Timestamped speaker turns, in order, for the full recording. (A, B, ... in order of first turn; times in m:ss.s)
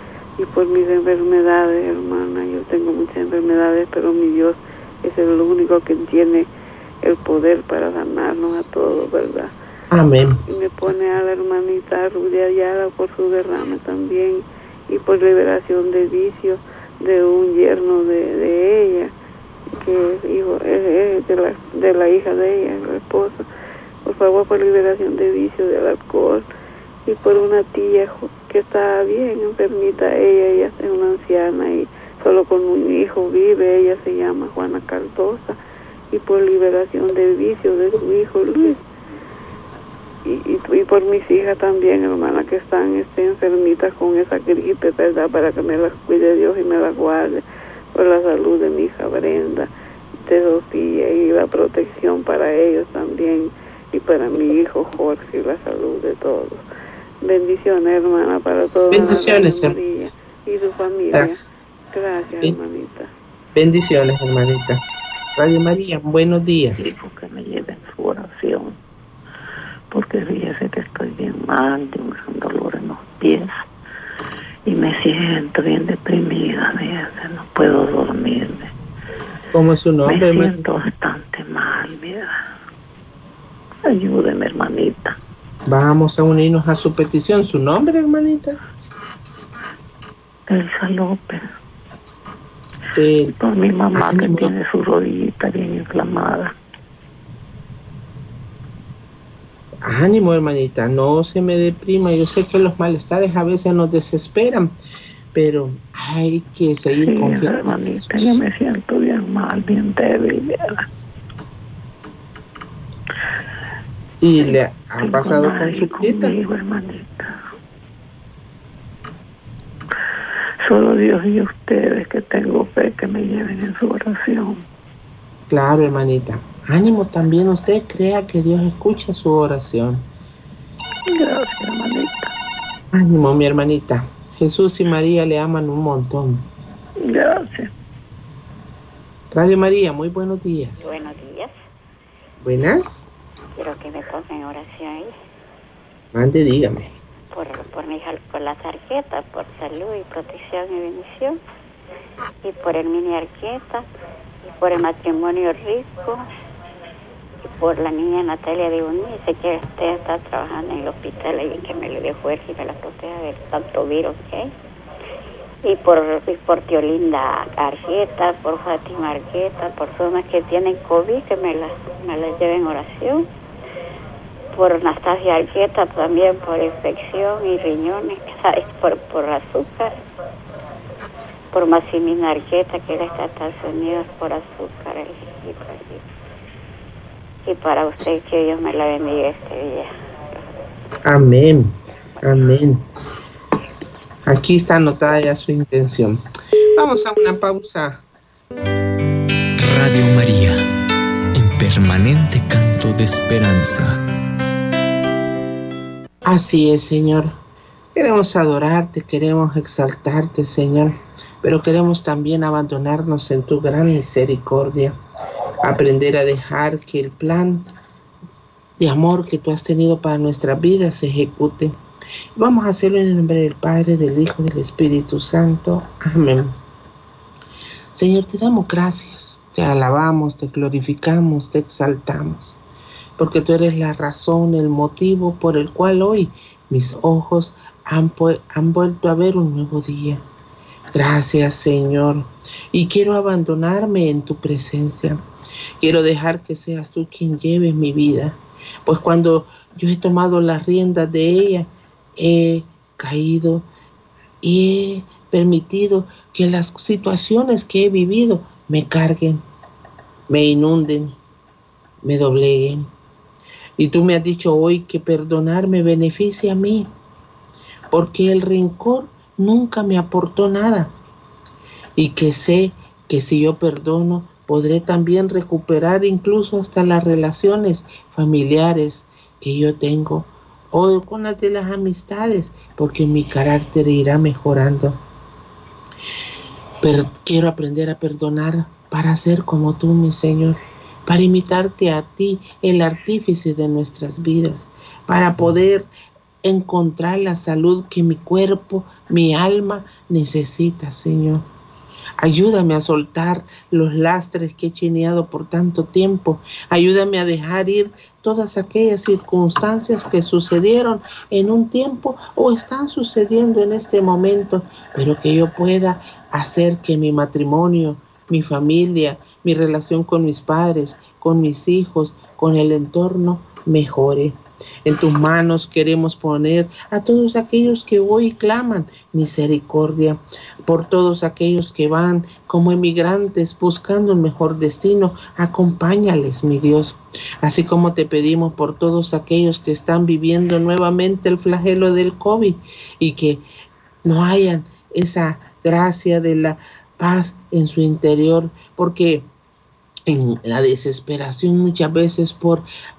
0:00.4-0:06.5 A
0:07.0-0:09.5 A
0:09.9-0:10.4 B
0:10.5-0:19.1 A
0:19.8-0:23.4 A
0:24.0-0:26.5 A
0:27.1-0:35.6 A
0:36.1-0:38.8 A
0:40.2-0:47.4 A
0:48.0-0:49.7 A
0:50.2-0:56.6 A
0:57.2-1:01.4 A
0:58.9-0:59.8 B
1:01.1-1:01.4 B
1:01.9-1:03.1 A
1:03.5-1:04.8 B
1:05.4-1:06.8 B
1:06.8-1:08.8 C
1:09.9-1:13.5 C
1:14.7-1:18.7 C
1:19.5-1:20.7 B
1:20.1-1:22.4 C
1:23.9-1:25.2 C
1:25.7-1:28.6 B
1:30.5-1:31.5 C
1:33.0-1:33.4 B
1:33.4-1:36.5 C
1:34.0-1:34.5 B
1:39.8-1:44.7 B
1:45.3-1:48.4 B
1:47.0-1:50.8 C
1:54.2-1:56.4 B
1:55.0-1:57.3 C
2:00.6-2:04.6 C
2:05.5-2:10.0 B
2:11.1-2:12.3 C
2:12.9-2:16.5 B
2:17.0-2:17.7 C
2:19.3-2:20.9 B
2:20.8-2:21.6 D
2:22.4-2:23.0 B
2:23.6-2:25.1 D
2:26.1-2:26.9 B
2:27.3-2:31.4 D
2:32.4-2:33.9 D
2:34.4-2:36.3 D
2:37.4-2:44.5 D
2:45.6-2:53.3 D
2:54.5-3:00.0 D
3:01.5-3:06.0 D
3:07.4-3:10.4 D
3:11.0-3:12.8 B
3:14.3-3:16.2 B
3:16.8-3:18.0 B
3:19.6-3:20.6 E
3:21.4-3:24.0 E
3:26.3-3:27.4 B
3:28.0-3:35.0 B
3:35.6-3:37.7 B
3:38.8-3:41.8 B
3:42.4-3:46.5 B
3:47.9-3:52.6 B
3:53.2-4:00.2 B
4:00.9-4:05.2 B
4:05.8-4:13.7 B
4:14.4-4:19.4 B
4:20.3-4:21.2 B
4:22.0-4:22.9 B
4:23.8-4:26.9 B
4:27.9-4:30.9 B
4:32.0-4:45.0 B
4:46.8-4:55.9 B
4:56.4-5:01.5 B
5:02.2-5:43.4 B
5:44.0-5:49.3 B
5:50.1-5:52.7 B